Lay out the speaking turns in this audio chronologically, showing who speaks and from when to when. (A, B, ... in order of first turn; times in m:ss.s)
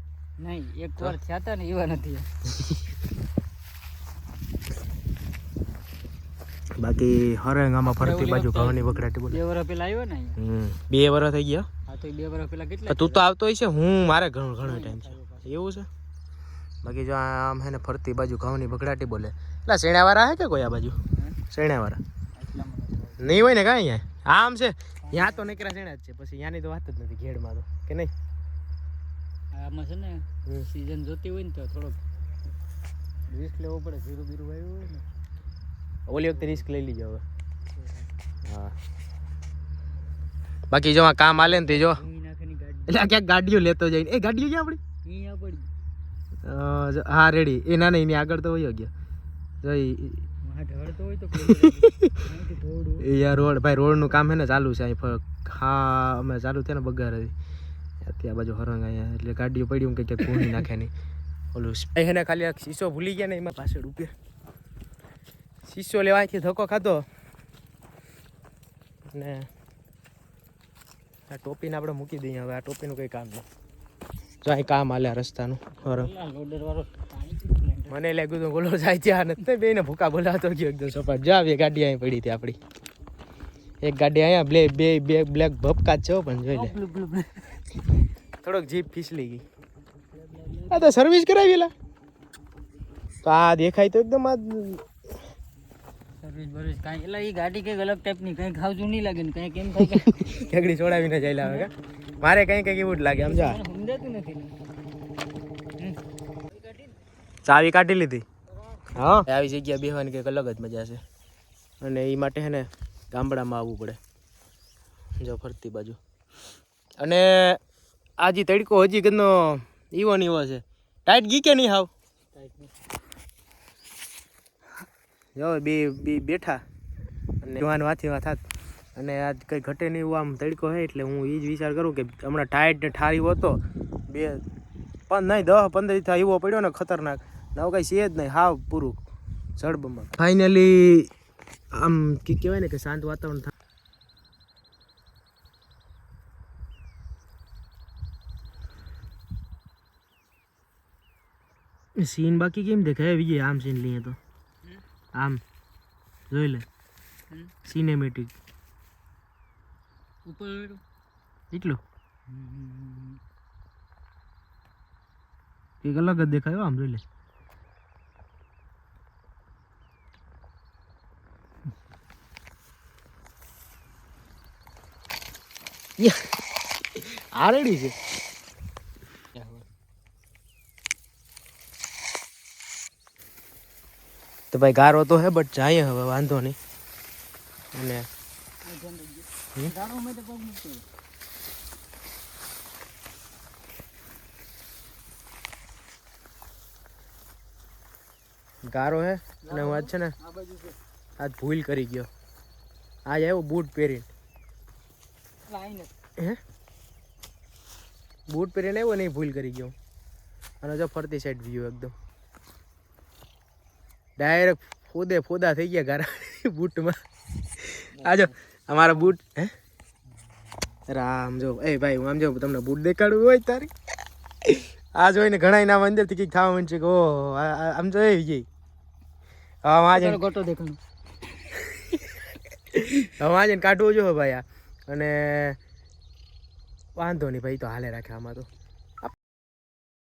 0:00.4-0:02.4 A
0:06.8-0:09.4 B
0:08.0-0:10.4 A
0:10.4-0:11.7 B
0:11.9-0:13.2 A
0:12.9-0:15.9 B
0:14.6-0:15.5 A
0:16.8-0:22.0 B
0:22.4-0:23.4 A
0:23.2-0:28.1 B
0:25.0-0:25.6 A
0:29.5-0:32.0 A
0:33.3-0:35.1 A
0:36.1-0:37.2 B
0:36.4-0:36.7 A
0:37.8-0:38.1 A
0:38.4-0:38.7 B
0:40.7-0:42.0 B
0:41.5-0:43.1 A
0:42.9-0:44.8 B
0:45.0-0:45.7 A
0:46.4-0:48.9 B
0:49.6-0:50.2 B
0:50.4-0:53.1 A
0:51.4-0:52.2 B
0:53.0-0:57.3 B
0:58.0-1:00.9 B
1:01.5-1:04.1 B
1:05.6-1:07.0 B
1:09.1-1:09.5 B
1:11.3-1:13.4 B
1:14.4-1:16.1 B
1:15.8-1:18.0 A
1:17.9-1:22.6 B
1:23.8-1:26.7 B
1:26.5-1:27.6 A
1:28.4-1:29.4 B
1:30.1-1:31.0 A
1:30.7-1:31.7 B
1:33.2-1:34.8 B
1:36.2-1:40.3 A
1:39.8-1:43.6 B
1:41.4-1:41.7 A
1:43.1-1:44.6 A
1:45.8-1:46.9 A
1:47.4-1:48.2 B
1:48.9-1:51.0 B
1:51.8-1:54.0 B
1:55.2-1:56.0 B
1:57.0-1:57.6 B
1:58.2-2:01.9 B
2:02.3-2:02.7 A
2:05.4-2:06.6 B
2:07.4-2:08.4 B
2:09.0-2:14.4 B
2:15.1-2:19.0 B
2:19.6-2:21.1 B
2:21.7-2:23.5 B
2:32.0-2:34.2 B
2:35.2-2:35.4 B
2:36.3-2:36.6 B
2:37.6-2:38.3 B
2:40.2-2:40.8 A
2:41.5-2:41.8 B
2:42.3-2:43.2 A
2:45.8-2:47.0 B
2:56.0-2:56.3 B
2:56.9-2:57.9 B
2:59.3-2:59.6 B
3:04.5-3:06.6 B
3:07.7-3:08.1 B
3:08.6-3:10.8 A
3:18.7-3:20.1 B
3:19.4-3:20.8 A
3:21.2-3:22.1 B
3:23.0-3:24.1 B
3:25.4-3:25.9 A
3:28.3-3:29.7 B
3:30.6-3:31.9 B
3:34.2-3:37.0 B
3:37.6-3:39.5 B
3:38.0-3:38.3 A
3:40.9-3:43.7 B
3:44.4-3:48.4 B
3:49.6-3:50.2 B
3:49.9-3:50.8 A
3:52.7-3:55.6 B
3:57.0-3:58.5 B